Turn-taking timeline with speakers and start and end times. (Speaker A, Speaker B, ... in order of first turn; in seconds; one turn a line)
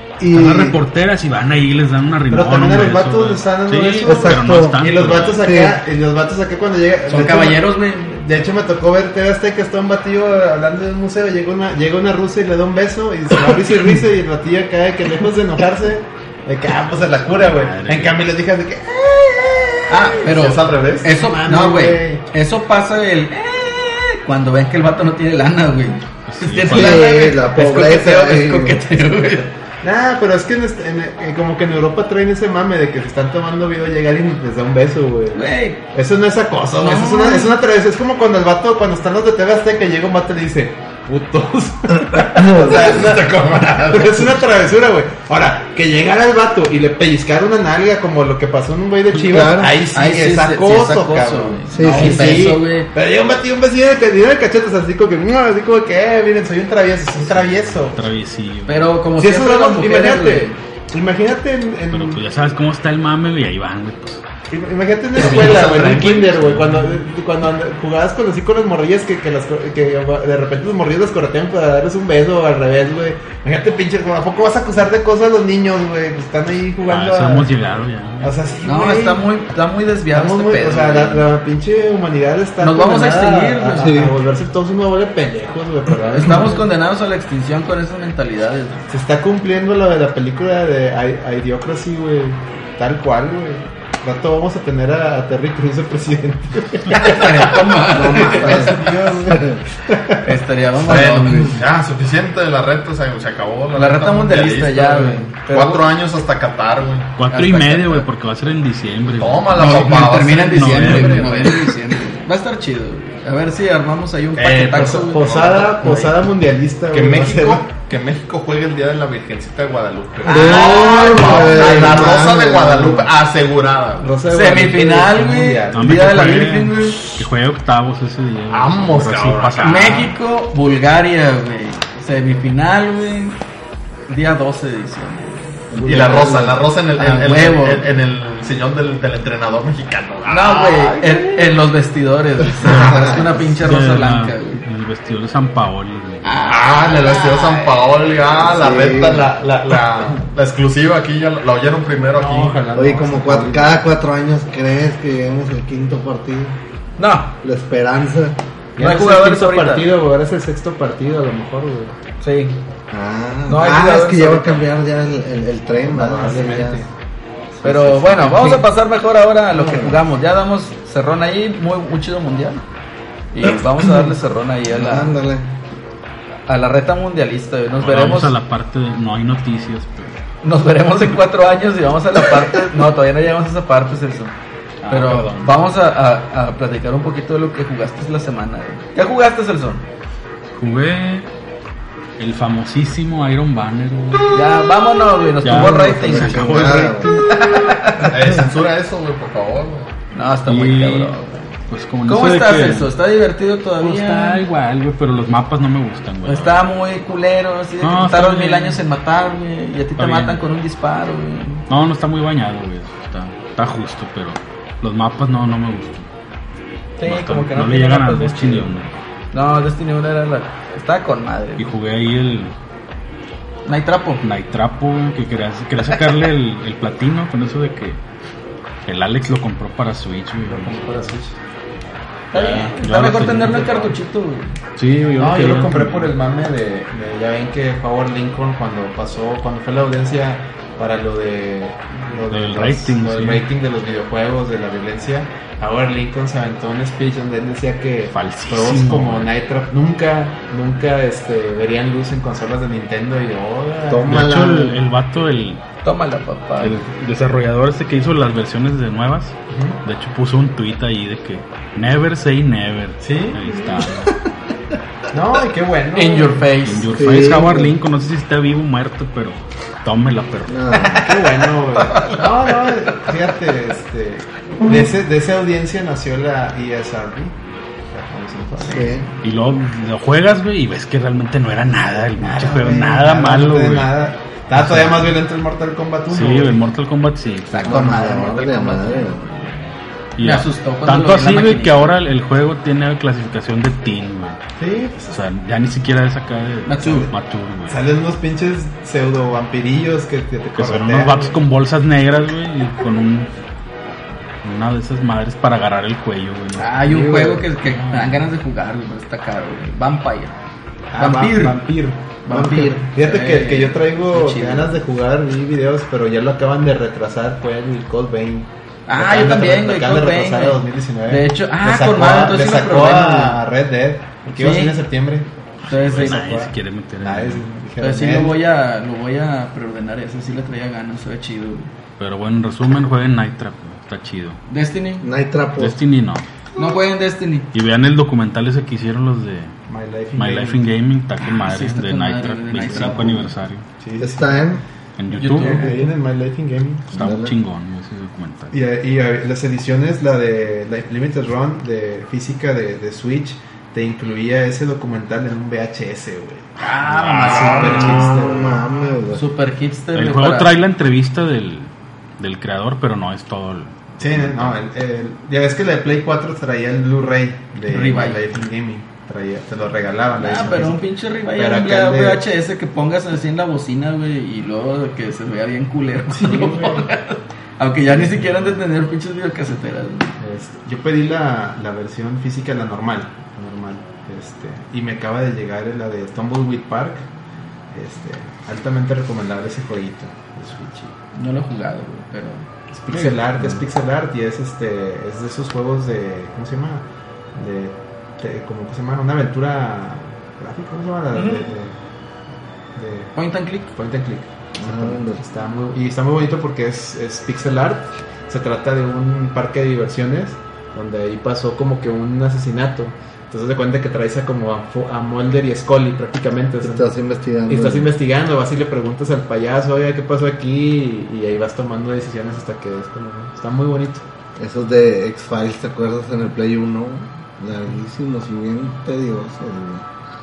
Speaker A: 0.2-0.8
Speaker B: 0.3-5.4
Speaker C: 2.3-20.2
Speaker A: 4.0-4.8
Speaker A: 5.4-5.8
Speaker D: 7.1-8.2
Speaker B: 17.3-18.2
Speaker D: 19.9-29.5
Speaker E: 20.2-21.1
Speaker C: 21.1-22.2
Speaker B: 26.3-27.1
Speaker A: 26.6-28.8
Speaker C: 29.8-58.0
Speaker D: 35.3-35.8
Speaker D: 36.8-37.5
Speaker E: 42.8-44.2
Speaker A: 49.2-49.8
Speaker D: 49.9-52.9
Speaker A: 51.7-52.5
Speaker B: 57.3-58.9
Speaker D: 58.7-60.6
Speaker C: 59.2-62.2
Speaker B: 61.9-64.2
Speaker C: 64.5-77.5
Speaker D: 65.2-66.3
Speaker B: 65.2-66.9
Speaker B: 76.9-78.3
Speaker C: 78.2-79.2
Speaker D: 78.6-81.2
Speaker C: 80.1-86.6
Speaker D: 82.6-84.0
Speaker A: 83.8-84.1
Speaker D: 86.1-88.8
Speaker C: 88.9-97.4
Speaker D: 96.9-98.8
Speaker A: 97.9-99.6
Speaker C: 98.2-100.3
Speaker D: 100.2-101.5
Speaker E: 100.8-107.1
Speaker D: 103.7-105.8
Speaker B: 107.2-111.6
Speaker D: 107.3-108.0
Speaker E: 109.1-111.5
Speaker D: 109.5-116.1
Speaker E: 114.4-115.7
Speaker C: 114.6-117.7
Speaker E: 116.9-124.1
Speaker A: 120.2-122.9
Speaker D: 120.2-121.6
Speaker C: 121.0-123.0
Speaker C: 124.0-126.4
Speaker D: 124.3-127.2
Speaker B: 125.7-130.1
Speaker E: 128.5-130.1
Speaker D: 129.6-133.4
Speaker D: 134.1-136.2
Speaker A: 135.7-136.7
Speaker E: 135.8-141.4
Speaker D: 136.9-137.9
Speaker D: 140.3-144.6
Speaker E: 142.6-143.0
Speaker A: 142.7-143.4
Speaker B: 143.6-146.3
Speaker D: 146.2-148.2
Speaker E: 146.5-152.6
Speaker A: 148.5-149.3
Speaker C: 152.1-153.8
Speaker A: 152.7-156.6
Speaker D: 157.0-157.3
Speaker A: 157.4-158.4
Speaker C: 158.8-161.9
Speaker D: 158.8-159.9
Speaker D: 162.2-162.6
Speaker A: 162.9-166.8
Speaker D: 163.5-164.7
Speaker C: 165.8-166.9
Speaker A: 167.6-168.7
Speaker D: 167.6-172.6
Speaker A: 169.5-170.0
Speaker D: 173.3-175.2
Speaker A: 173.5-174.1
Speaker A: 174.7-175.5
Speaker D: 176.5-178.3
Speaker B: 177.8-180.2
Speaker D: 180.4-184.3
Speaker B: 184.8-185.6
Speaker D: 184.9-189.8
Speaker B: 190.5-191.3
Speaker B: 192.2-194.4
Speaker D: 194.3-198.1
Speaker B: 195.4-196.9
Speaker A: 196.0-197.2
Speaker E: 198.1-199.9
Speaker D: 200.1-201.5
Speaker B: 200.4-201.1
Speaker B: 201.7-202.9
Speaker D: 202.1-204.4
Speaker B: 203.8-206.6
Speaker D: 206.2-211.6
Speaker B: 207.8-208.8
Speaker B: 210.0-210.4
Speaker B: 211.7-216.1
Speaker D: 217.0-218.7
Speaker B: 217.0-219.0
Speaker D: 219.3-221.7
Speaker B: 221.6-222.5
Speaker D: 223.7-224.2
Speaker B: 224.2-228.0
Speaker B: 228.8-231.1
Speaker C: 230.4-231.3
Speaker D: 232.3-234.5
Speaker B: 232.3-233.9
Speaker B: 234.8-236.1
Speaker C: 235.2-254.2
Speaker B: 242.3-243.4
Speaker B: 248.1-249.3
Speaker A: 253.9-254.8
Speaker B: 254.0-255.6
Speaker D: 255.8-256.8
Speaker B: 256.6-264.1
Speaker C: 259.5-259.8
Speaker C: 263.0-263.9
Speaker C: 265.1-266.4
Speaker D: 265.9-266.9
Speaker B: 266.6-271.0
Speaker A: 266.9-267.7
Speaker A: 270.5-271.0
Speaker D: 270.7-272.7
Speaker C: 271.0-277.4
Speaker C: 277.9-279.0
Speaker A: 278.6-279.1
Speaker B: 279.2-283.9
Speaker C: 282.2-286.6
Speaker B: 284.5-285.1
Speaker B: 286.1-287.9
Speaker D: 287.5-289.6
Speaker A: 287.6-289.2
Speaker B: 290.2-294.4
Speaker D: 290.2-291.9
Speaker C: 294.6-295.2
Speaker B: 295.1-297.8
Speaker D: 296.6-297.1
Speaker C: 297.7-301.4
Speaker B: 300.6-303.3
Speaker B: 304.4-306.8
Speaker D: 306.6-310.3
Speaker A: 306.9-307.4
Speaker B: 307.7-308.2
Speaker C: 310.9-312.1
Speaker D: 311.0-311.6
Speaker D: 312.2-314.7
Speaker A: 312.3-312.9
Speaker C: 312.9-325.3
Speaker D: 318.9-323.4
Speaker D: 324.3-324.8
Speaker D: 325.7-326.2
Speaker B: 325.7-327.5
Speaker C: 325.9-328.4
Speaker D: 327.8-331.7
Speaker B: 332.0-334.4
Speaker D: 334.5-335.1
Speaker A: 335.0-335.8
Speaker B: 335.6-336.2
Speaker D: 336.6-337.5
Speaker B: 337.5-339.5
Speaker C: 339.7-340.6
Speaker B: 340.1-343.6
Speaker D: 341.3-343.2
Speaker C: 342.7-343.1
Speaker C: 343.8-344.5
Speaker A: 344.0-344.6
Speaker B: 345.0-345.6
Speaker D: 345.1-345.9
Speaker C: 345.3-347.1
Speaker B: 346.9-348.5
Speaker A: 346.9-347.3
Speaker C: 348.5-356.6
Speaker D: 356.6-358.2
Speaker E: 357.0-357.9
Speaker C: 357.2-358.6
Speaker A: 357.2-359.2
Speaker D: 359.1-360.5
Speaker B: 359.9-364.6
Speaker C: 364.0-372.2
Speaker D: 367.7-368.2
Speaker D: 370.2-380.1
Speaker C: 376.1-376.9
Speaker C: 377.9-378.4
Speaker C: 380.2-387.1
Speaker C: 387.7-390.9
Speaker D: 391.1-392.4
Speaker C: 392.7-401.8
Speaker D: 401.1-401.5
Speaker C: 402.7-403.1
Speaker D: 403.1-403.7
Speaker C: 403.7-416.9
Speaker A: 404.6-405.2
Speaker A: 416.6-417.9
Speaker C: 417.5-424.0
Speaker A: 424.4-429.8